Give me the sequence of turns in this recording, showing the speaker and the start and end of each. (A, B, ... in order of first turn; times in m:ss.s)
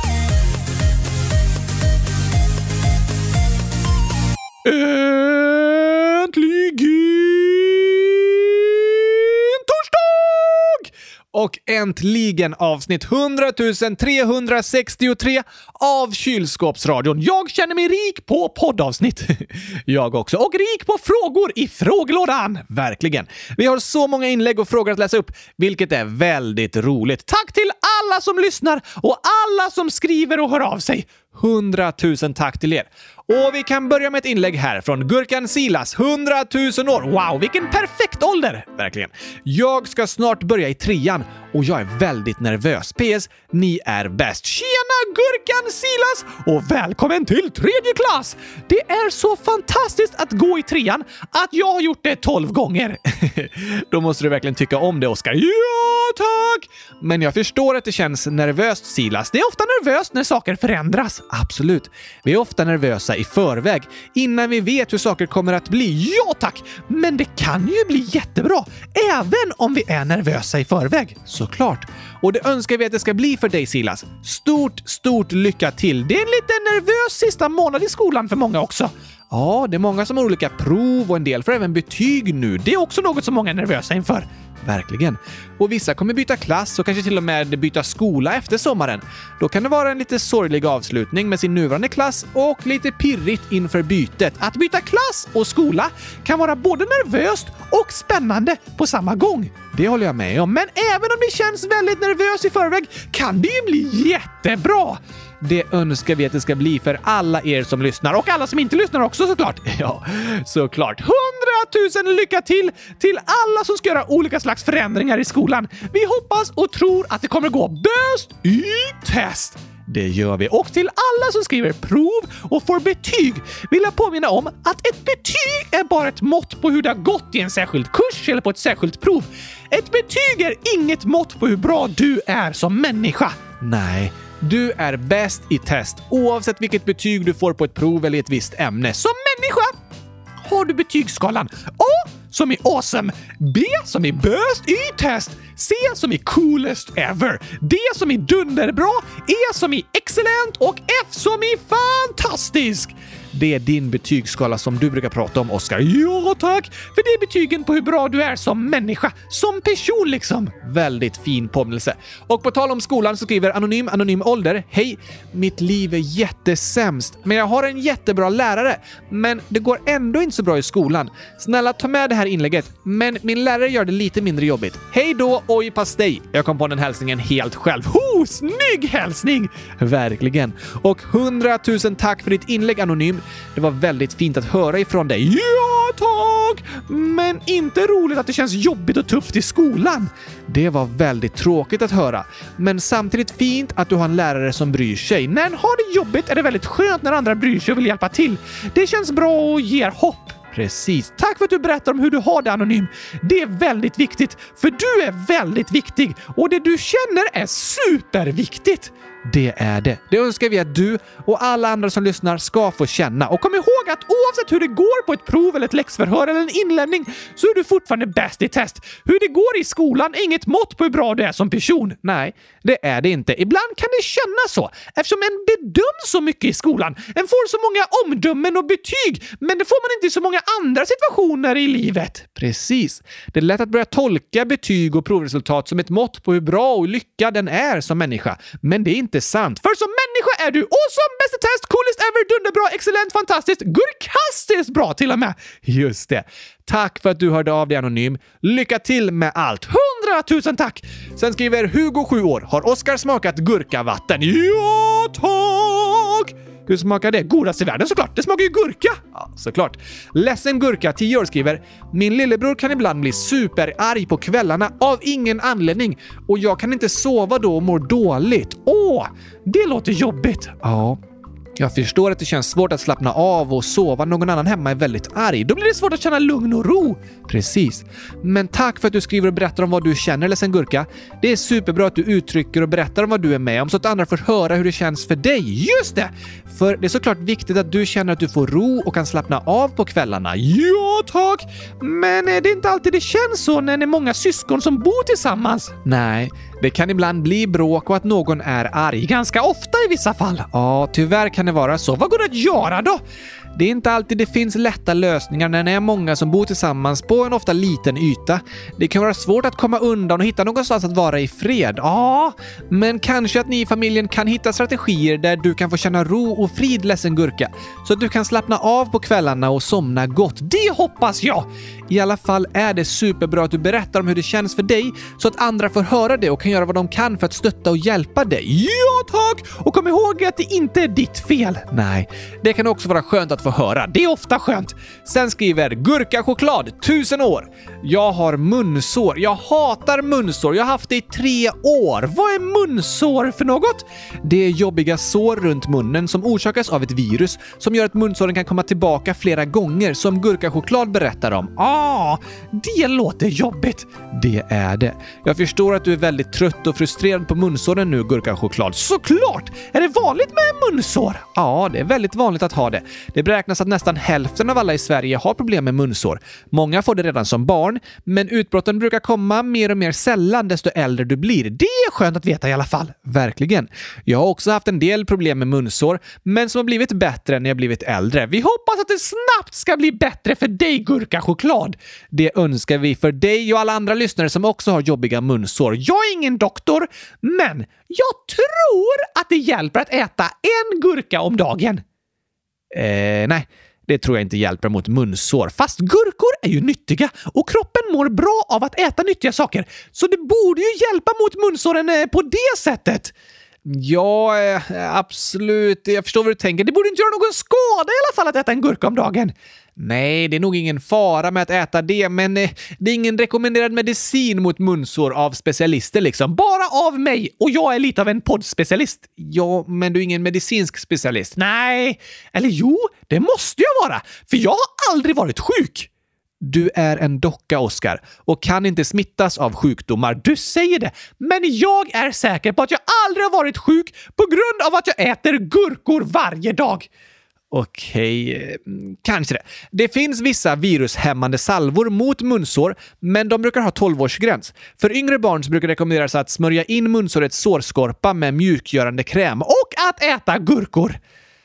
0:04.6-2:19.7 A
2:20.4-4:31.0 A
4:31.6-5:03.0 A
5:03.6-6:31.8 A
6:32.7-6:43.1 A
6:43.6-7:05.9 A
7:06.4-7:16.9 A
7:17.5-7:31.0 A